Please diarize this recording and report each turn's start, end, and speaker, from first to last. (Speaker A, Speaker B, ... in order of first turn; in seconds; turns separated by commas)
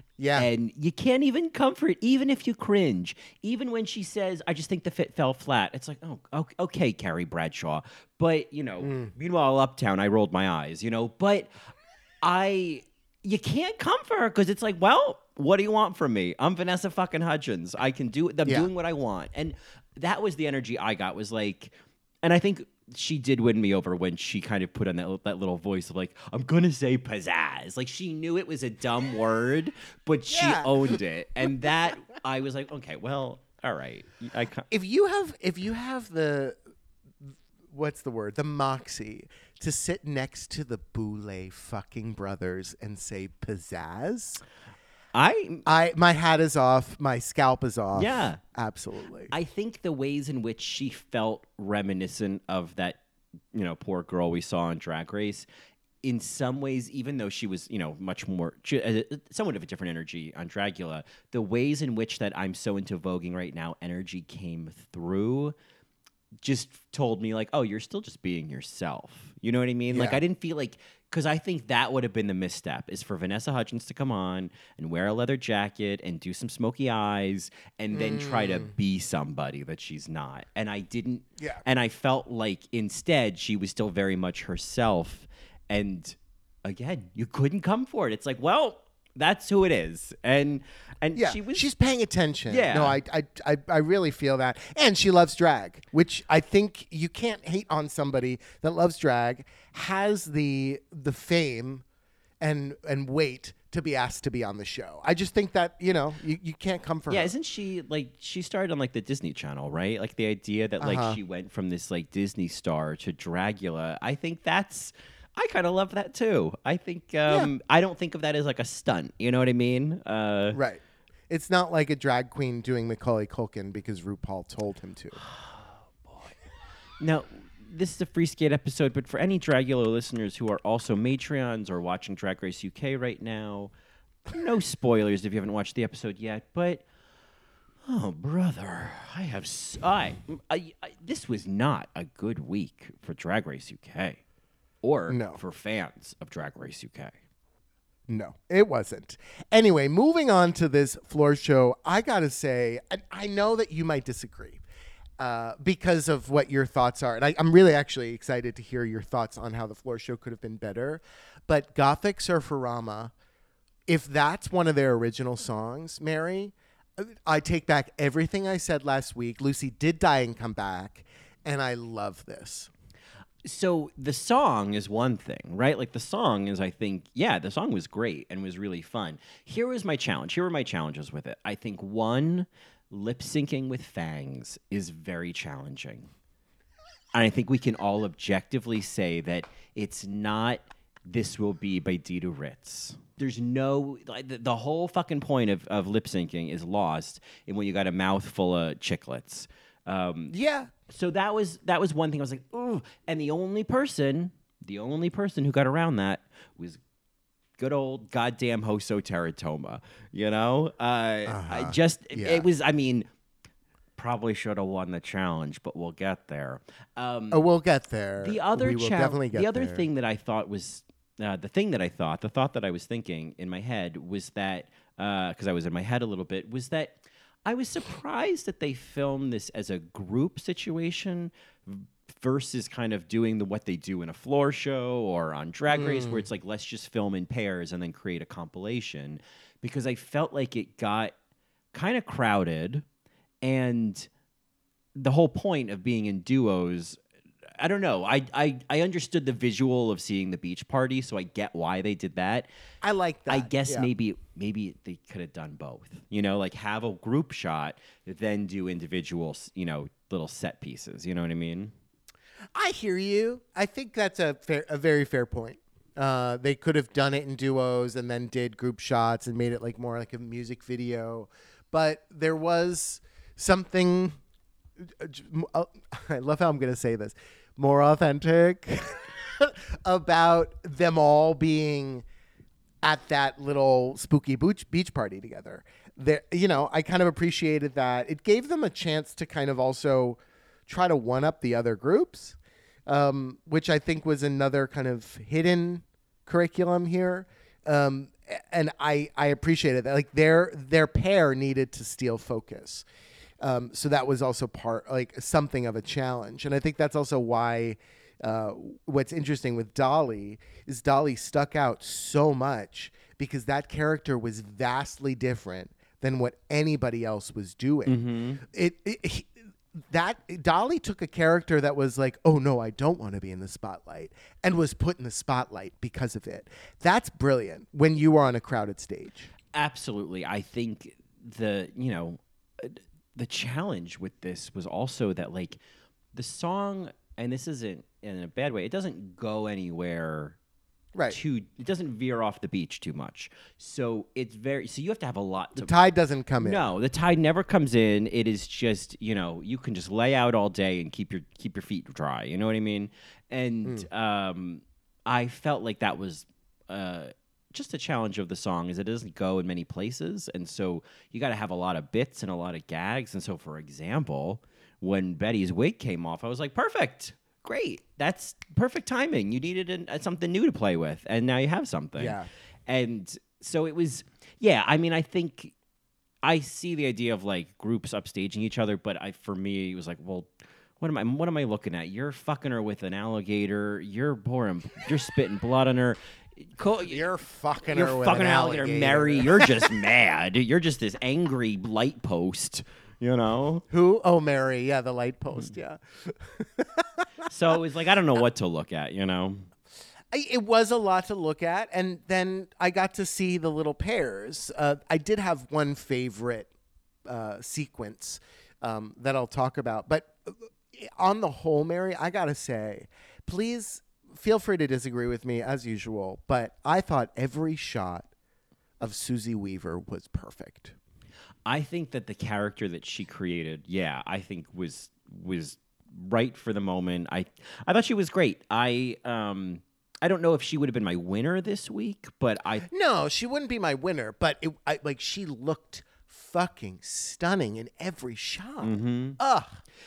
Speaker A: 0.2-0.5, Speaker B: 0.3-11.5, Speaker A: 8.8-9.1, Speaker B: 12.2-34.7, Speaker A: 30.3-31.0, Speaker A: 34.7-36.6, Speaker A: 37.2-44.4, Speaker B: 45.1-45.7, Speaker A: 45.6-49.3, Speaker B: 47.9-48.4, Speaker B: 49.3-53.0, Speaker B: 53.5-55.5, Speaker B: 56.0-65.5, Speaker B: 66.4-91.7, Speaker A: 69.9-70.2, Speaker A: 77.9-78.7, Speaker A: 81.4-81.6, Speaker A: 91.2-101.8, Speaker B: 92.5-93.0, Speaker A: 102.4-107.3, Speaker B: 107.1-120.6, Speaker A: 110.8-111.2, Speaker A: 120.5-125.2, Speaker B: 125.2-126.4, Speaker B: 127.0-133.7, Speaker B: 134.3-136.8, Speaker B: 137.8-144.2, Speaker B: 144.8-147.2, Speaker A: 145.1-145.4, Speaker A: 148.1-154.6, Speaker A: 155.2-163.1, Speaker A: 163.9-172.7, Speaker B: 173.4-186.1, Speaker B: 187.1-200.3, Speaker A: 200.3-200.7, Speaker B: 200.9-206.8, Speaker B: 207.6-213.1, Speaker A: 211.3-212.5, Speaker B: 214.0-217.4, Speaker A: 217.3-219.8, Speaker B: 218.2-241.1, Speaker A: 235.7-236.2, Speaker B: 241.7-242.8, Speaker B: 243.4-244.1, Speaker B: 244.9-247.0, Speaker B: 247.6-252.5, Speaker A: 252.8-253.9, Speaker B: 253.3-261.7, Speaker A: 262.6-274.2, Speaker A: 274.8-282.1, Speaker A: 282.8-302.9, Speaker A: 303.4-329.3, Speaker B: 317.9-318.4, Speaker B: 329.5-335.6, Speaker B: 336.1-340.4, Speaker A: 340.9-341.2, Speaker B: 341.1-345.7, Speaker A: 345.6-346.6, Speaker B: 346.4-375.5, Speaker A: 372.0-372.3, Speaker B: 376.2-387.0, Speaker A: 386.9-389.7, Speaker B: 387.7-393.6, Speaker A: 393.7-397.1, Speaker B: 397.3-399.5, Speaker A: 400.1-406.5, Speaker A: 407.1-418.1, Speaker A: 418.8-420.8, Speaker B: 421.5-432.7, Speaker A: 432.7-439.6, Speaker B: 438.6-439.2